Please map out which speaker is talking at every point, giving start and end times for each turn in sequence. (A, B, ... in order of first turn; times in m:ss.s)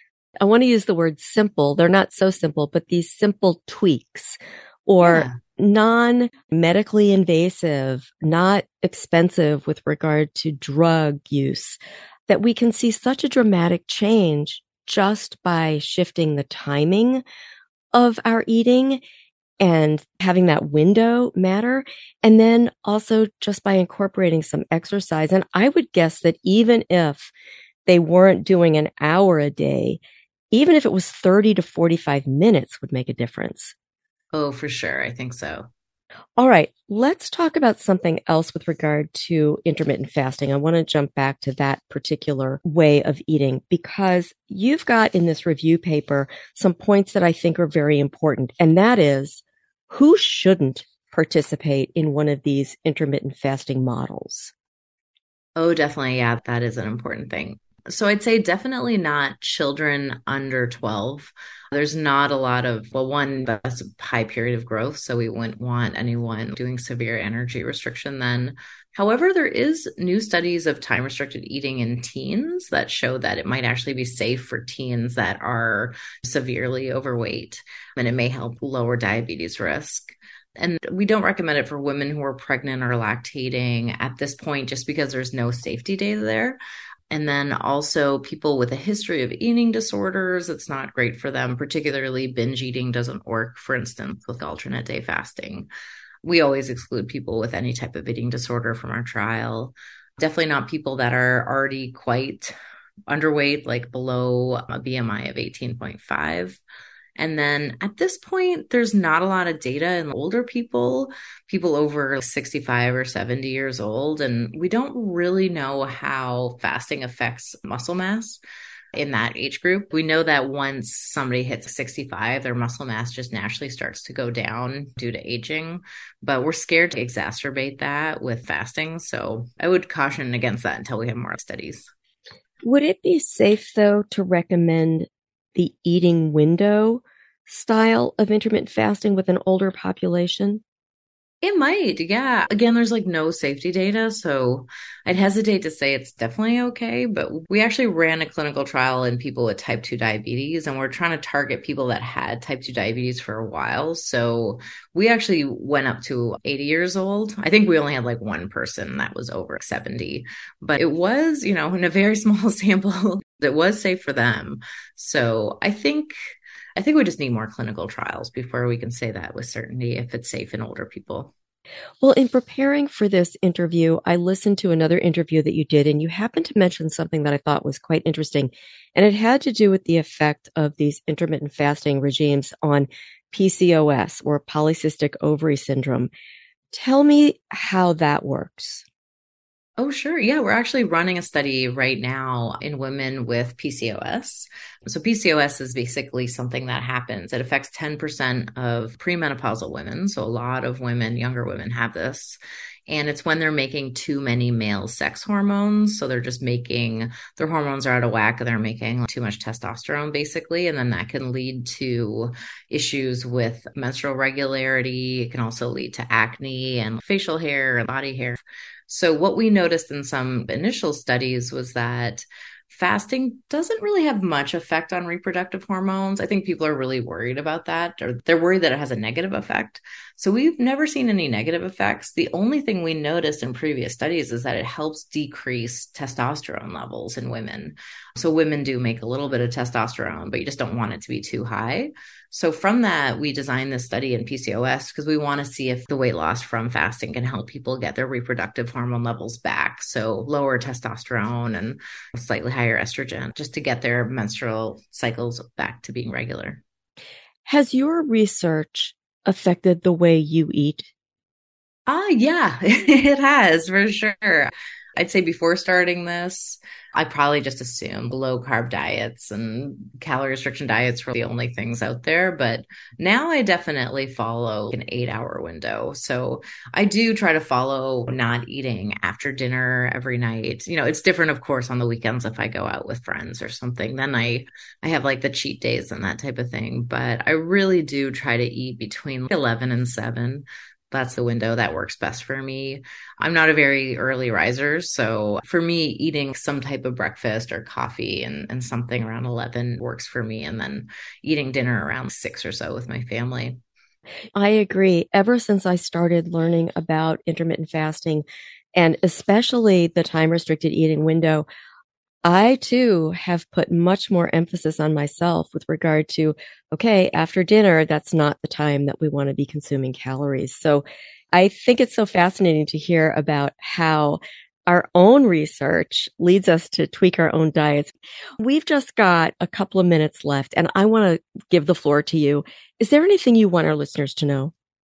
0:00.4-0:11.8 A
0:05.0-0:05.4 B
0:12.3-0:17.2 A
0:17.9-0:19.0 A
0:19.6-0:27.3 A
0:27.9-0:30.0 A
0:30.5-0:33.7 A
0:34.3-0:35.7 B
0:36.4-0:54.5 A
0:55.6-1:26.6 B
1:27.1-1:35.7 B
1:36.2-1:42.5 B
1:43.1-1:46.6 B
1:47.2-1:58.4 B
1:58.9-2:11.9 B
2:12.6-2:20.6 A
2:21.4-2:46.1 B
2:46.8-2:51.3 B
2:52.0-3:06.1 A
3:06.7-3:08.8 A
3:09.8-4:16.6 B
4:17.4-4:20.9 A
4:21.9-5:03.6 B
5:04.4-5:08.2 A
5:08.7-5:11.4 A
5:12.2-5:34.5 A